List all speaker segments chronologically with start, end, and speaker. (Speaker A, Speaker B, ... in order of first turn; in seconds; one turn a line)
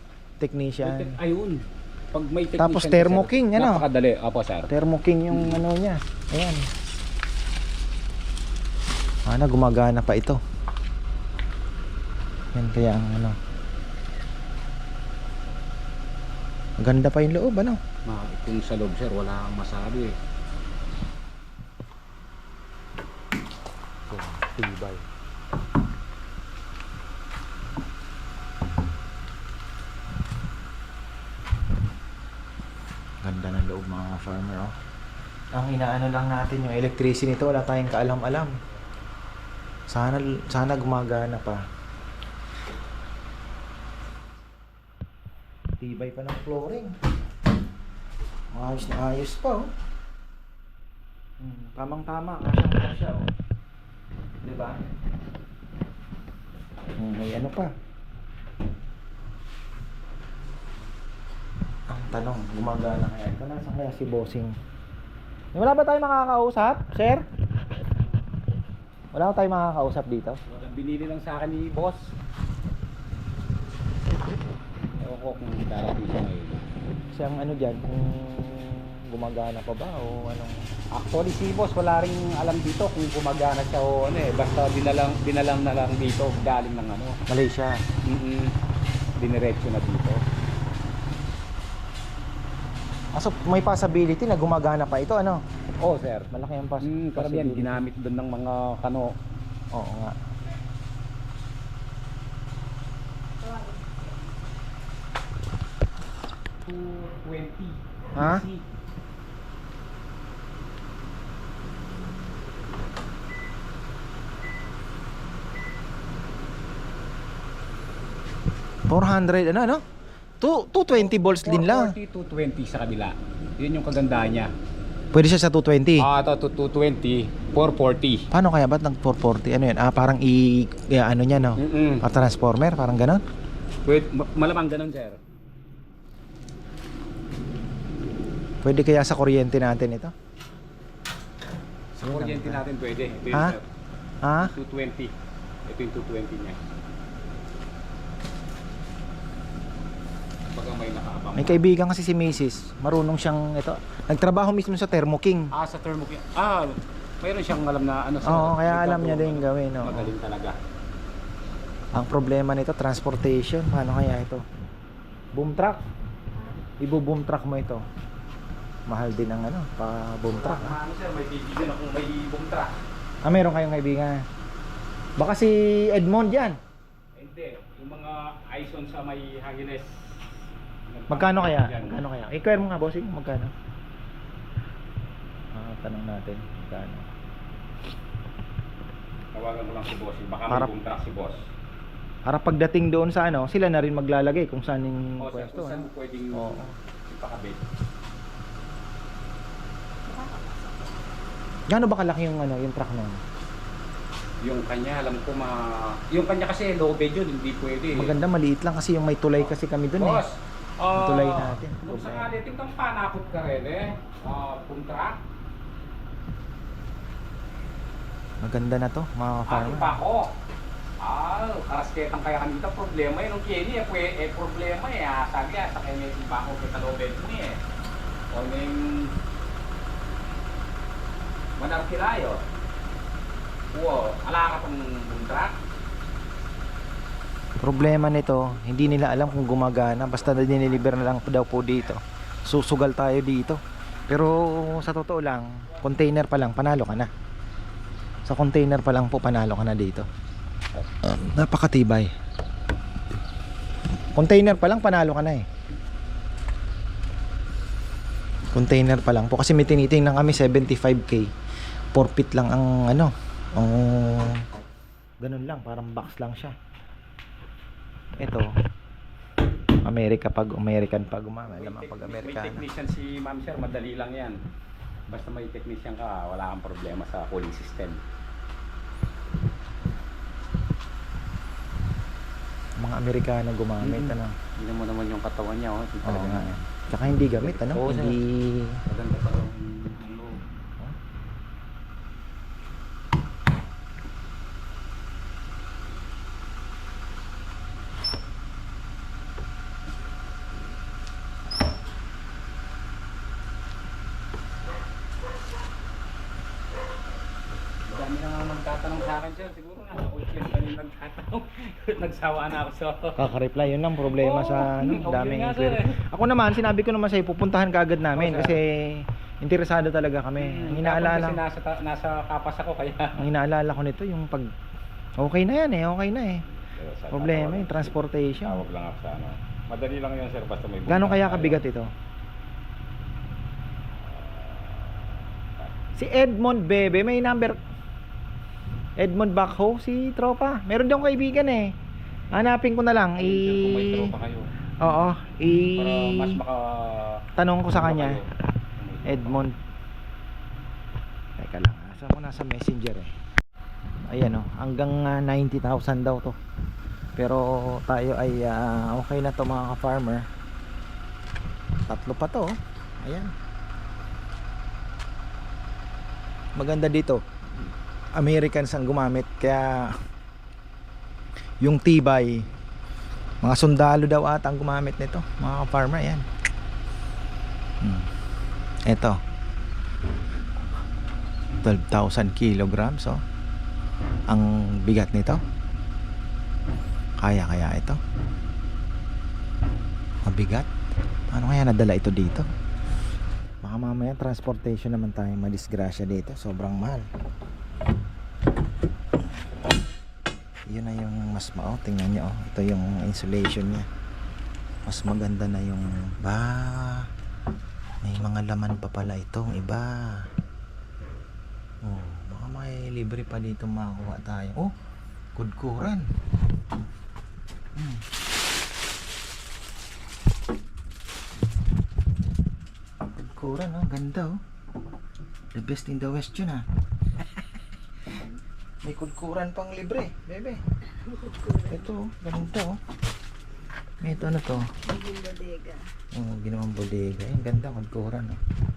Speaker A: 0.4-1.1
Speaker B: 0.8-4.7
Speaker A: 2.6-3.8
Speaker A: 4.7-6.7
Speaker B: 5.3-5.6
Speaker A: 9.2-10.4
Speaker A: 12.5-13.4
Speaker A: 16.8-17.8
Speaker B: 18.0-20.1
Speaker A: 24.1-25.0
Speaker A: 33.2-34.8
Speaker A: 35.5-38.5
Speaker A: 39.9-41.6
Speaker A: 45.8-46.9
Speaker A: 48.5-49.7
Speaker A: 51.4-53.3
Speaker A: 54.4-54.8
Speaker A: 57.0-57.7
Speaker A: 61.9-64.5
Speaker A: 65.5-67.2
Speaker A: 69.1-70.4
Speaker B: 70.5-72.1
Speaker B: 75.0-76.6
Speaker A: 77.1-80.7
Speaker B: 80.9-87.2
Speaker A: 87.3-87.8
Speaker B: 88.0-88.5
Speaker B: 89.2-90.2
Speaker A: 93.1-95.4
Speaker B: 95.8-96.3
Speaker A: 96.3-97.8
Speaker B: 96.8-99.1
Speaker A: 99.7-100.2
Speaker C: 103.4-103.9
Speaker B: 106.6-108.7
Speaker A: 108.2-108.4
Speaker A: 118.9-119.8
Speaker A: 120.4-122.0
Speaker B: 120.9-124.5
Speaker A: 125.1-126.1
Speaker B: 126.0-128.3
Speaker A: 128.3-133.2
Speaker B: 131.6-132.1
Speaker B: 133.8-135.2
Speaker A: 138.6-140.1
Speaker A: 141.9-142.6
Speaker B: 142.1-143.6
Speaker A: 144.2-144.5
Speaker B: 144.4-145.1
Speaker B: 145.7-146.6
Speaker B: 150.5-151.6
Speaker A: 151.3-155.5
Speaker B: 155.5-160.6
Speaker A: 158.2-160.1
Speaker A: 161.9-164.4
Speaker A: 165.3-165.8
Speaker A: 166.8-167.8
Speaker A: 168.9-170.8
Speaker B: 170.3-172.8
Speaker A: 173.2-174.2
Speaker A: 175.2-176.6
Speaker B: 177.1-180.3
Speaker B: 180.9-182.0
Speaker A: 181.1-183.5
Speaker A: 185.5-187.1
Speaker B: 189.3-191.4
Speaker A: 192.2-196.7
Speaker B: 195.2-197.7
Speaker C: 200.1-200.7
Speaker A: 201.7-203.2
Speaker B: 204.4-208.2
Speaker A: 207.9-210.2
Speaker B: 209.4-215.2
Speaker A: 210.9-212.3
Speaker A: 218.4-220.0
Speaker B: 219.5-220.3
Speaker B: 221.0-227.6
Speaker B: 228.3-229.1
Speaker B: 231.6-232.4
Speaker B: 233.7-235.6
Speaker A: 237.6-247.1
Speaker A: 248.2-250.1
Speaker A: 251.0-252.1
Speaker A: 254.1-255.4
Speaker A: 258.5-261.3
Speaker A: 261.9-264.4
Speaker A: 265.2-266.5
Speaker A: 268.2-268.5
Speaker A: 269.8-272.6
Speaker B: 271.5-274.4
Speaker B: 275.1-278.0
Speaker A: 282.8-284.3
Speaker B: 283.8-286.6
Speaker A: 286.0-288.8
Speaker B: 287.4-288.2
Speaker B: 288.9-290.4
Speaker B: 307.8-313.2
Speaker A: 313.2-321.4
Speaker B: 314.1-316.0
Speaker B: 318.1-318.6
Speaker B: 320.4-323.1
Speaker A: 323.1-324.5
Speaker A: 325.2-326.4
Speaker B: 326.6-331.6
Speaker A: 327.1-328.6
Speaker A: 330.9-331.9
Speaker B: 333.9-335.0
Speaker A: 335.9-337.6
Speaker A: 339.0-341.7
Speaker A: 342.3-344.1
Speaker B: 343.1-344.5
Speaker A: 344.8-346.4
Speaker B: 345.7-349.4
Speaker A: 347.4-348.2
Speaker A: 349.0-349.5
Speaker A: 351.4-353.1
Speaker A: 354.1-356.4
Speaker A: 357.2-360.3
Speaker A: 361.9-363.3
Speaker A: 366.6-367.2
Speaker A: 368.2-369.9
Speaker A: 371.6-372.5
Speaker A: 373.4-376.2
Speaker A: 377.8-378.1
Speaker A: 378.9-379.2
Speaker A: 381.6-383.2
Speaker A: 384.3-385.4
Speaker A: 387.2-388.0
Speaker A: 390.2-390.7
Speaker A: 391.3-392.5
Speaker A: 393.6-397.1
Speaker A: 400.7-403.9
Speaker A: 404.9-407.1
Speaker A: 408.0-410.3
Speaker A: 411.8-414.7
Speaker A: 415.3-416.1
Speaker A: 417.8-418.0
Speaker A: 423.1-424.4
Speaker A: 425.5-426.6
Speaker A: 428.8-430.6
Speaker C: 431.1-431.7
Speaker A: 431.7-432.8
Speaker A: 434.0-434.7
Speaker C: 434.8-435.8
Speaker A: 436.1-438.4